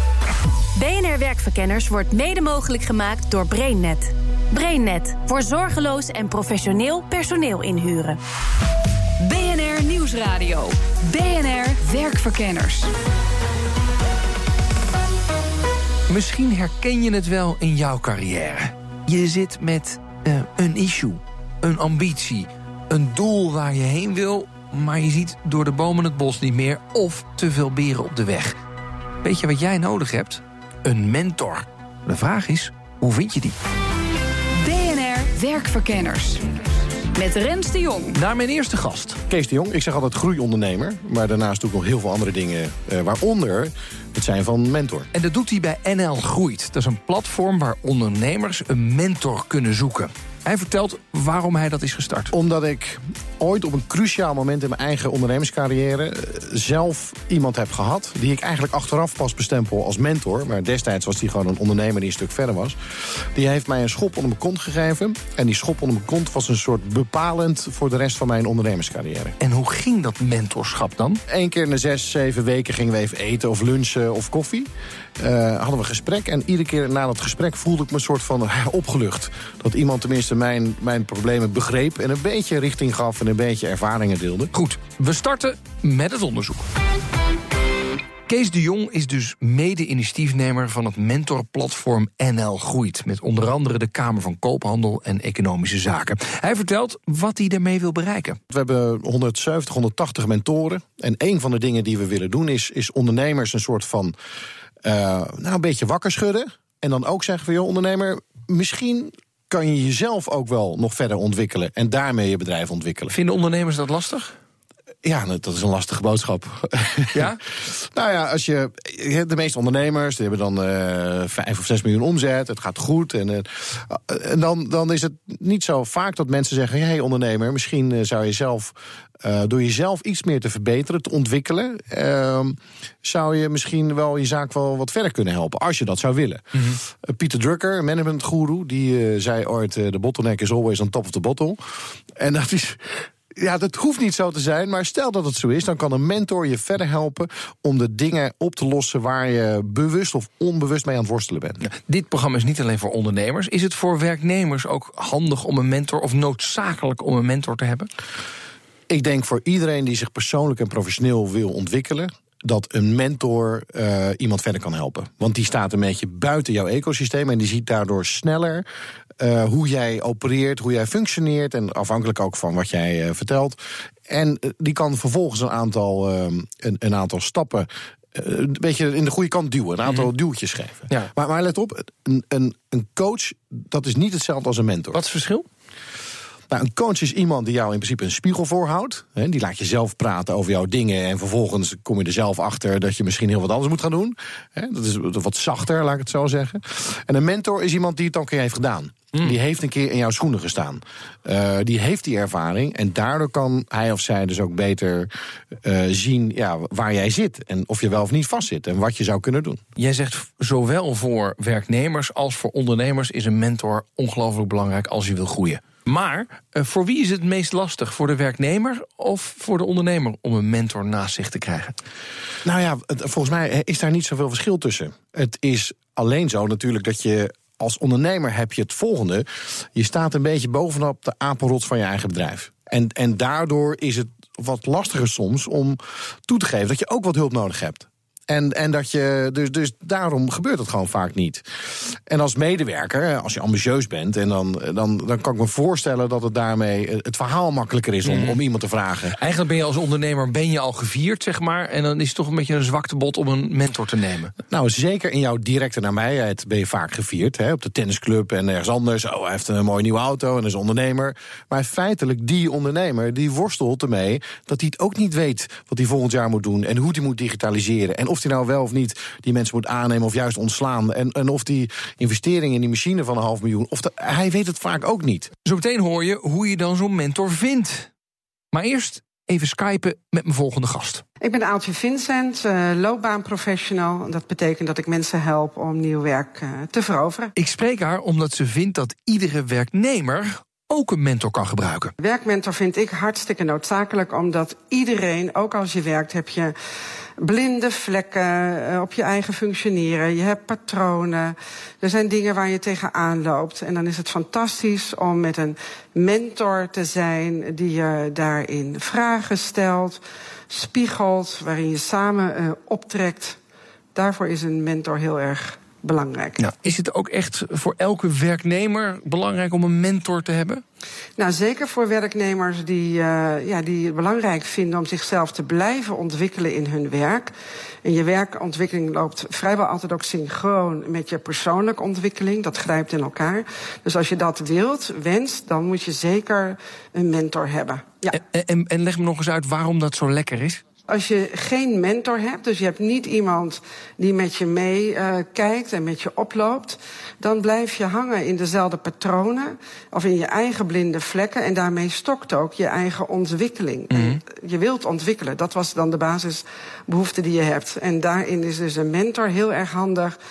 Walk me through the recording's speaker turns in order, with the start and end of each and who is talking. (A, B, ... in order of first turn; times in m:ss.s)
0:00.8-0:08.2 A
0:09.2-0:12.9 B
0:16.1-0:28.6 C
0:29.2-0:33.6 C
0:34.6-0:36.4 B
0:37.2-0:38.2 B
0:38.1-0:39.2 C
0:39.3-0:45.1 D
0:45.1-0:52.3 C
0:52.3-1:09.4 D
1:09.4-1:11.2 C
1:11.3-1:24.5 D
1:24.5-1:26.7 C
1:28.3-1:38.4 C
1:38.5-1:44.1 D
1:44.8-1:53.1 D
1:53.1-1:54.3 C
1:55.0-2:31.7 D
1:57.1-1:57.4 C
2:31.6-2:37.9 C
2:38.9-2:48.7 D
2:49.2-3:05.0 D
3:04.9-3:05.5 C
3:06.5-3:25.1 D
3:25.6-3:29.6 D
3:29.8-3:41.8 C
3:42.4-4:09.2 D
4:08.0-4:08.4 C
4:09.2-4:14.3 C
4:14.5-4:35.3 D
4:35.4-4:37.9 C
4:38.5-4:41.0 C
4:41.2-4:47.3 E
4:47.4-4:51.9 C
4:52.0-4:56.5 E
4:57.2-5:13.4 E
5:13.9-5:16.4 E
5:16.4-5:20.6 C
5:21.2-5:27.3 E
5:27.8-5:38.2 E
5:38.1-5:40.6 C
5:40.9-6:00.2 E
5:53.9-5:54.2 C